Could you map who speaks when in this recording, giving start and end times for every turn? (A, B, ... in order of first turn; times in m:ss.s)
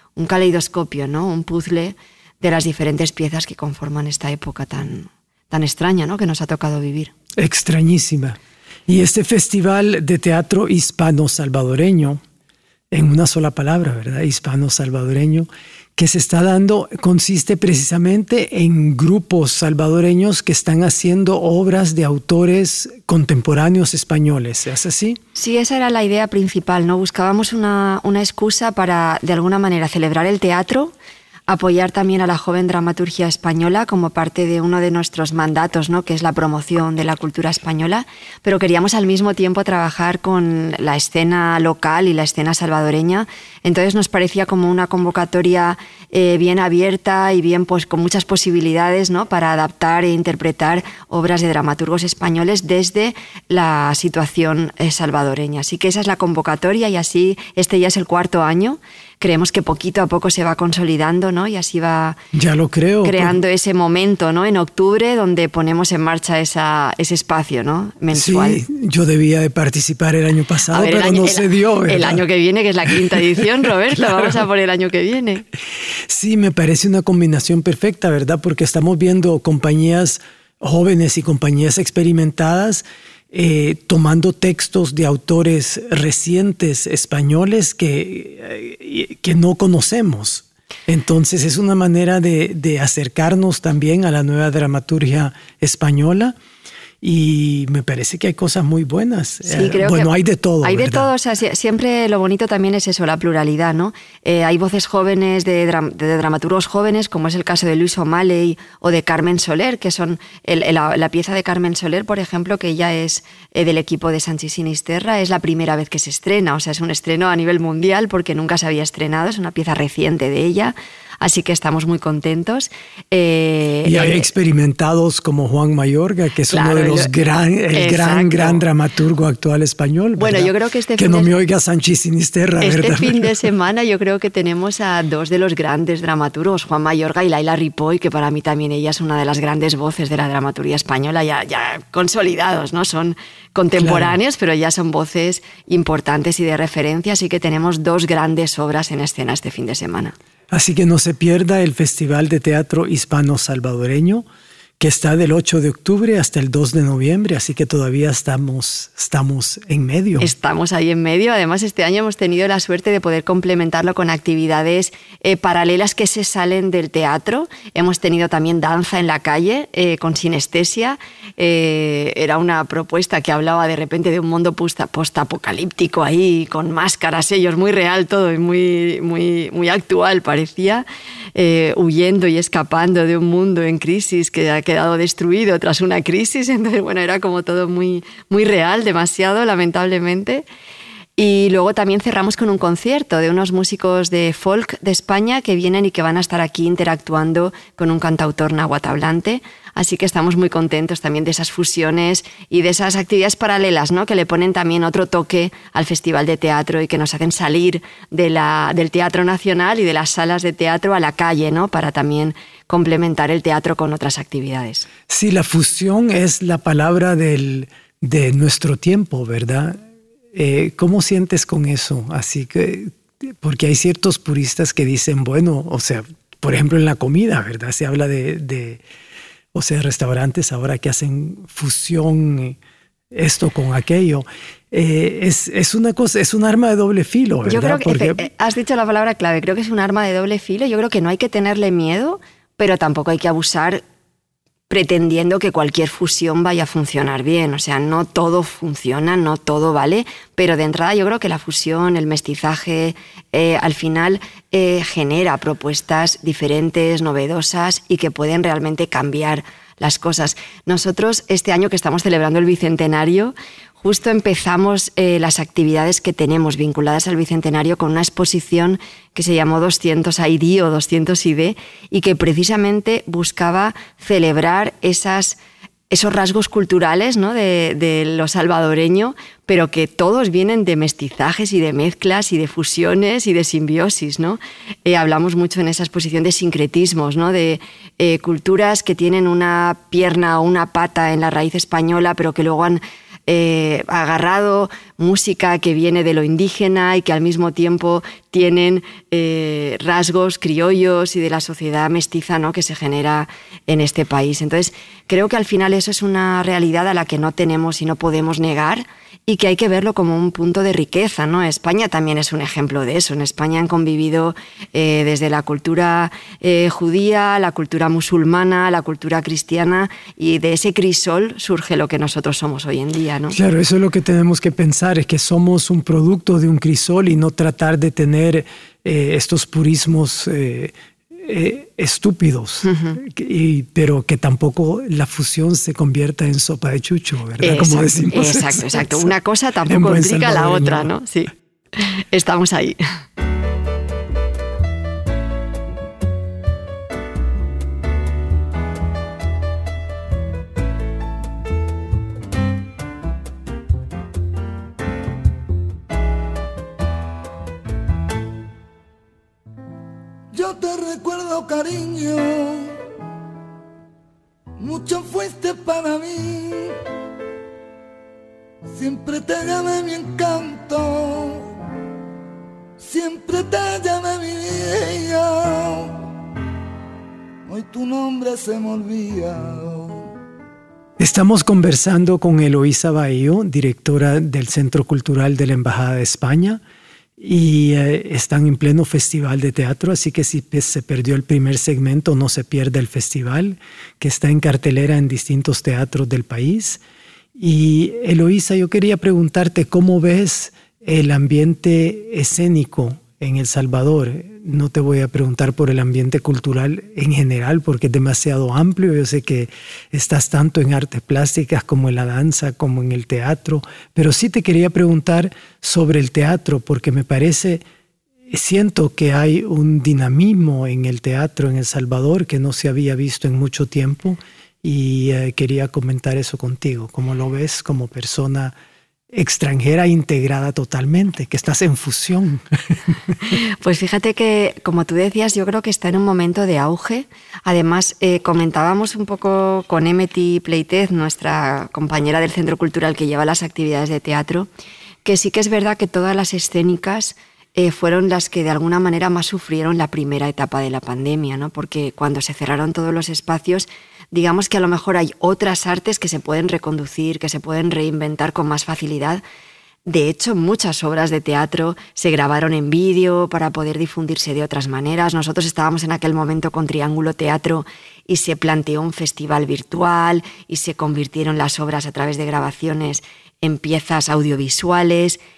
0:00.2-0:07.1 A
0:07.4-0:12.2 B
0:12.9-0:25.2 B
0:25.3-0:30.9 A
0:31.5-1:02.2 A
1:02.3-1:03.4 B
1:03.0-1:08.6 A
1:08.1-1:12.2 B
1:10.7-1:15.4 A
1:14.0-1:14.3 B
1:16.1-1:36.3 B
1:37.0-1:41.1 B
1:39.4-1:40.1 A
1:40.6-2:04.3 A
2:03.8-2:13.4 B
2:06.5-2:07.1 A
2:07.7-2:08.6 A
2:10.2-2:11.3 A
2:12.6-2:30.1 A
2:23.8-2:24.1 B
2:30.5-2:34.2 B
2:34.8-2:40.3 B
2:40.2-3:10.4 A
3:11.2-3:34.9 A
3:35.1-3:39.8 B
3:40.3-3:48.8 B
3:49.5-3:52.6 B
3:53.1-3:58.2 B
3:57.5-4:03.8 A
4:04.7-4:35.4 A
4:35.9-5:23.4 A
5:23.3-5:39.1 B
5:32.6-5:33.0 A
5:37.4-5:42.8 A
5:39.7-5:40.9 B
6:00.3-6:02.8 C
6:04.6-6:06.8 C
6:08.7-6:11.5 C
6:12.8-6:16.0 C
6:17.5-6:20.1 C
6:21.0-6:26.6 B
6:27.2-6:36.8 B
6:37.4-6:57.6 B
6:58.3-7:08.6 B
7:09.1-7:13.1 B
7:13.3-7:24.5 A
7:25.0-7:39.2 A
7:39.8-7:55.2 A